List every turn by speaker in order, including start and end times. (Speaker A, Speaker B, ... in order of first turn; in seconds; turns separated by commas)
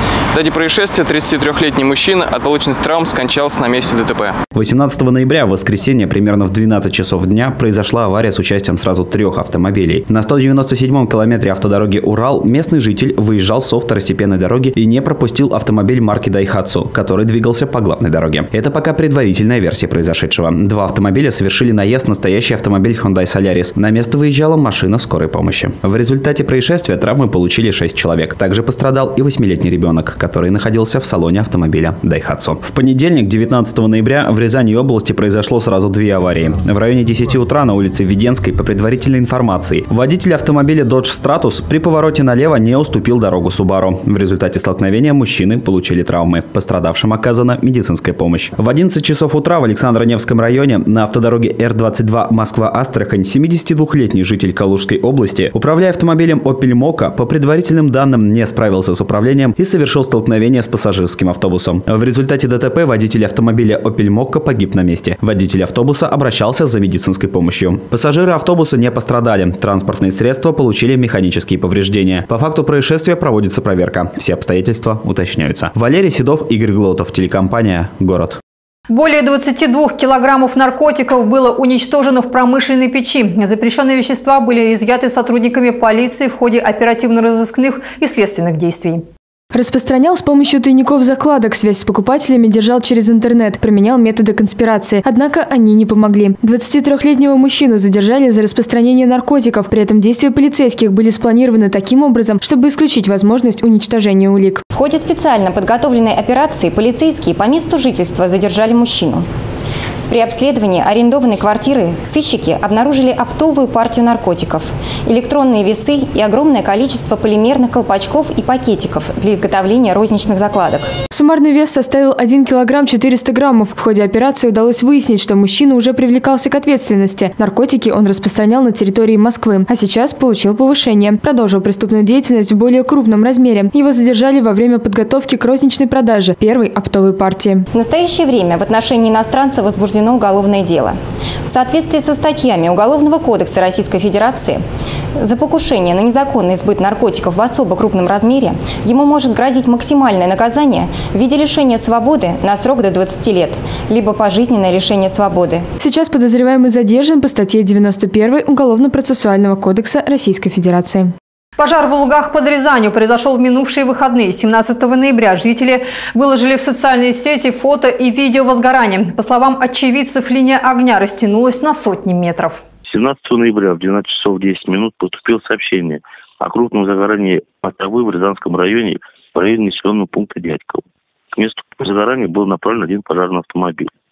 Speaker A: 0.3-4.3, Speaker B: 4.5-78.4, Speaker C: 78.9-89.0, Speaker D: 89.5-104.6, Speaker E: 104.9-109.1, Speaker E: 110.1-120.8, Speaker D: 121.1-137.6, Speaker E: 137.8-140.9, Speaker E: 141.5-144.5, Speaker E: 145.2-155.5, Speaker D: 155.8-161.1, Speaker C: 161.6-172.6, Speaker F: 172.9-180.8, Speaker F: 181.4-183.9